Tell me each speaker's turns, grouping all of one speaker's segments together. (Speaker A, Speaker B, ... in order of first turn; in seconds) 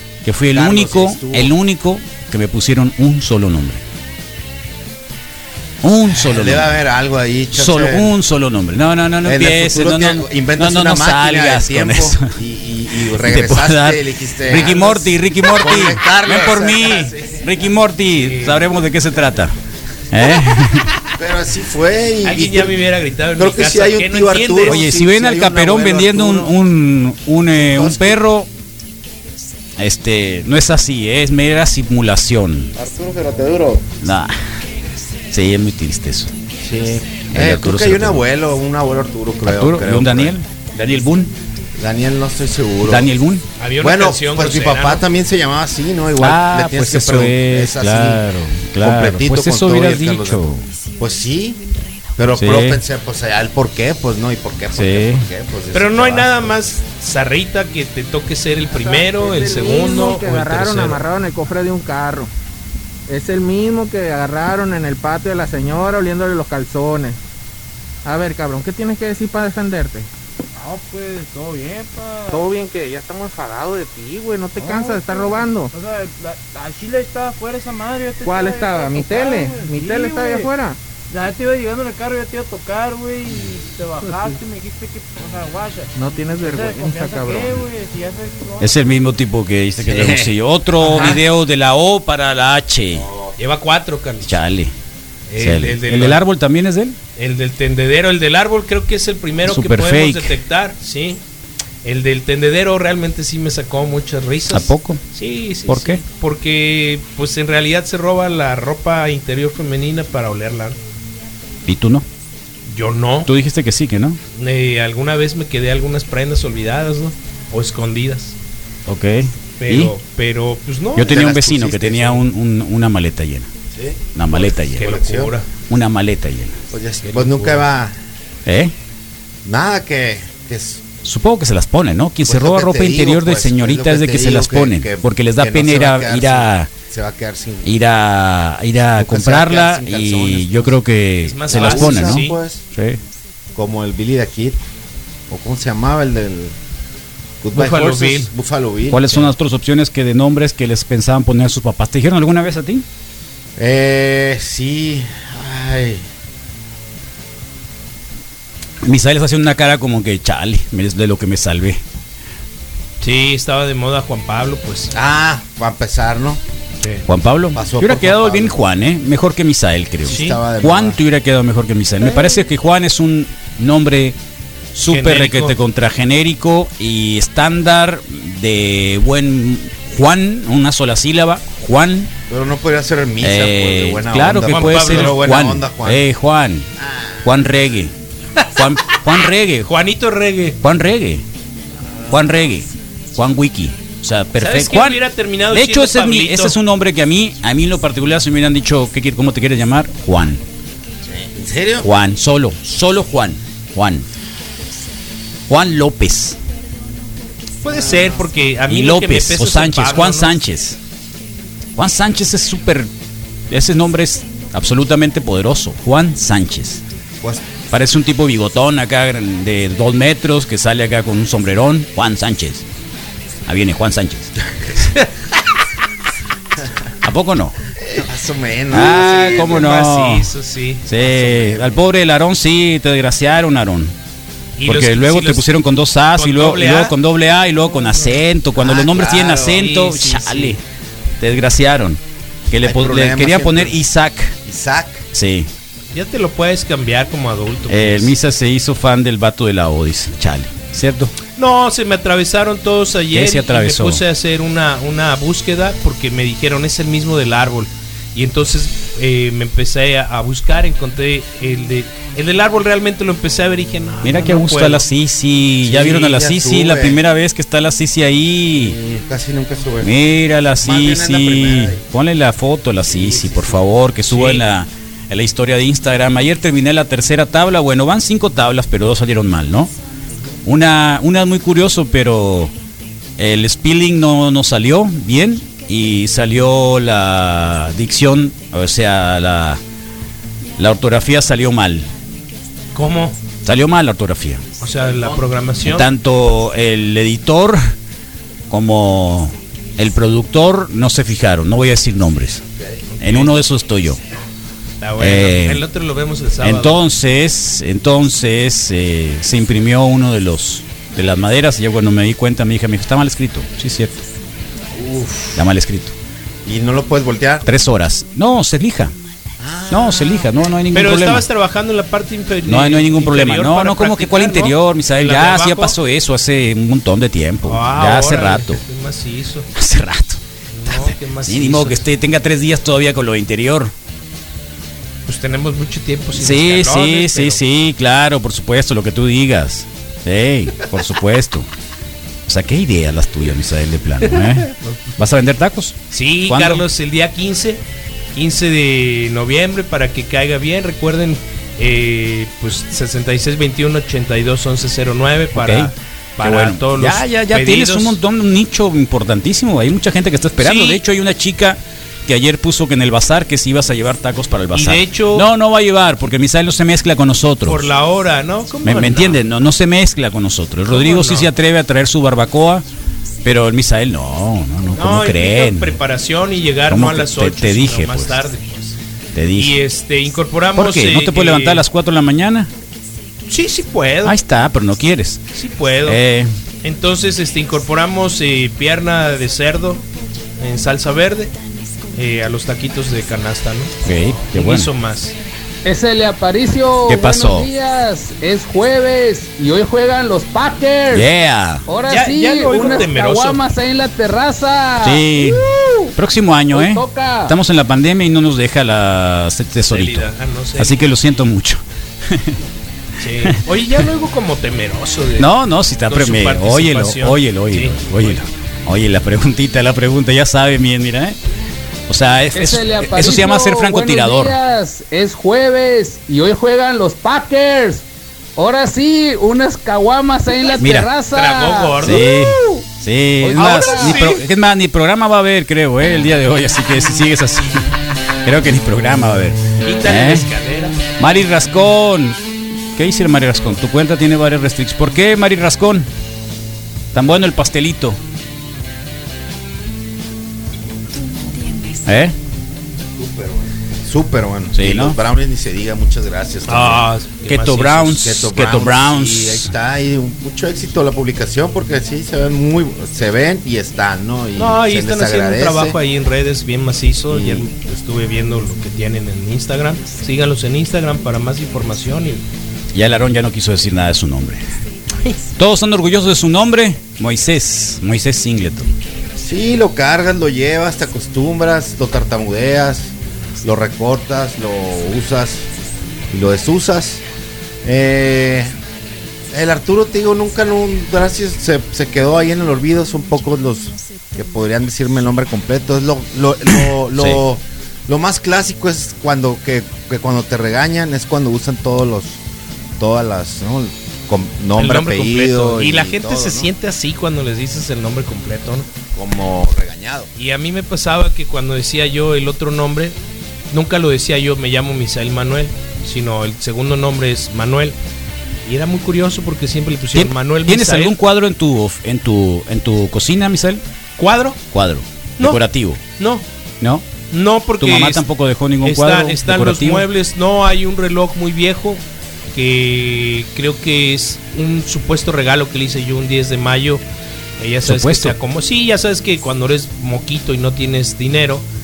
Speaker A: 0.2-3.8, 5.8-6.7, 7.5-12.3, 13.1-19.5, 20.1-20.9, 24.7-28.5, 29.8-32.7, 34.0-34.3, 35.3-36.3, 37.3-38.2, 39.4-41.3, 42.8-43.4, 46.2-50.6, 52.3-52.8, 54.7-55.2, 88.6-93.1, 94.2-94.7, 95.4-97.0, 99.5-100.3, 104.5-105.0, 105.7-106.0, 111.7-112.0, 113.2-114.2, 118.9-119.9, 121.0-123.5, 124.1-124.9, 125.7-126.6, 128.4-128.7, 131.0-136.7, 137.6-143.0, 148.9-152.8, 158.8-161.8, 167.1-174.2, 174.7-182.1, 183.2-186.7, 187.2-187.9, 188.5-189.7, 190.6-191.2, 192.1-200.4, 201.8-204.1, 205.5-206.4, 208.7-210.8, 211.8-212.9, 213.5-216.8, 217.7-222.6, 223.4-224.3, 227.0-227.6, 228.7-230.3, 230.8-233.9, 234.7-240.6, 241.2-244.3, 245.1-245.5, 247.7-251.1, 253.1-254.0, 264.0-268.8, 269.8-279.7, 280.4-282.5, 283.2-289.6, 290.6-291.9, 293.4-294.4, 295.6-297.6, 298.5-302.4, 303.0-304.0, 305.0-305.6, 306.4-314.0, 315.3-315.9, 317.4-318.9, 319.7-321.2, 322.5-328.6, 329.5-333.7, 336.1-341.5, 342.3-346.6, 355.3-367.6, 368.6-372.6, 373.2-375.8, 376.7-378.2, 379.1-379.5, 380.6-382.5, 384.0-385.2, 385.9-386.3, 393.8-394.7, 396.9-397.5, 400.9-401.6, 404.8-412.4, 415.2-421.2, 421.9-424.4, 430.6-430.9, 431.8-437.7, 438.2-440.3, 441.0-442.2, 442.8-445.9, 446.9-448.0, 451.8-452.1, 454.5-455.0, 457.2-459.5, 472.7-474.4, 475.4-478.7, 496.9-497.2, 519.9-523.6, 524.5-525.8, 526.6-526.9, 527.6-529.8, 537.6-538.1
Speaker B: 0.5-1.5, 6.0-8.1, 9.2-17.5, 21.1-22.8, 23.4-26.5, 27.6-28.2, 32.8-33.8, 36.6-40.4, 41.8-43.1, 43.8-48.2, 48.8-51.6, 52.1-56.5, 89.8-91.2, 92.9-93.3, 121.0-122.2, 123.7-125.3, 126.7-128.0, 129.4-130.8, 132.2-137.7, 138.9-140.8, 141.5-142.6, 143.5-144.6, 145.3-146.5, 147.4-149.3, 153.6-156.1, 164.9-166.4, 167.5-168.6, 170.0-171.0, 182.3-186.1, 186.8-187.3, 201.0-201.9, 227.8-229.7, 230.9-231.9, 238.5-239.7, 242.6-243.8, 244.4-245.1, 265.6-267.0, 268.5-269.9, 270.6-271.8, 272.9-273.6, 314.7-315.4, 316.4-317.5, 319.4-320.4, 452.9-456.9, 457.9-465.8, 467.1-467.5, 479.2-485.5, 486.1-487.0, 487.6-488.5, 489.3-502.2, 502.8-506.5, 508.9-510.1
Speaker C: 14.6-14.9, 18.2-18.7, 22.2-24.8, 43.6-45.0, 55.7-61.0, 93.4-94.3, 95.3-96.2, 97.2-101.2, 101.8-110.8, 112.7-113.3, 114.3-118.3, 119.6-121.2, 124.5-125.5, 127.0-127.6, 141.2-142.4, 147.5-148.3, 163.0-164.9, 170.1-170.4, 174.9-175.6, 184.5-185.2, 189.7-190.6, 194.4-196.6, 207.6-210.4, 229.3-230.8, 234.6-235.5, 236.1-236.9, 239.4-240.6, 245.9-248.1, 251.3-264.9, 274.1-274.4, 292.7-293.2, 294.6-295.9, 303.0-303.4, 304.8-306.8, 320.7-325.8, 327.4-329.5, 330.5-331.8, 335.1-337.4, 344.1-344.8, 345.9-347.6, 348.1-358.0, 360.4-360.8, 364.5-365.2, 367.4-369.2, 370.7-371.3, 374.7-378.8, 379.4-381.6, 383.3-384.2, 385.3-386.0, 386.6-389.8, 390.4-391.3, 391.9-393.7, 394.3-395.1, 401.9-403.4, 409.7-410.8, 413.0-415.3, 415.9-418.2, 431.1-432.1, 433.4-434.2, 439.6-440.8, 456.5-457.9, 464.4-472.2, 504.6-508.7, 510.1-512.9, 513.5-517.8, 518.5-521.0, 524.0-524.4, 526.0-526.2, 527.1-528.0, 528.6-531.8, 532.3-536.8, 537.4-541.4
Speaker D: 58.7-62.3, 63.1-67.2, 68.0-70.1, 72.3-75.7, 78.2-80.8, 85.9-87.7
Speaker E: 70.5-72.5, 74.5-80.5, 81.1-88.9
Speaker F: 395.6-401.1, 401.7-405.9, 406.5-407.3, 422.3-427.8, 428.4-432.6, 433.2-434.0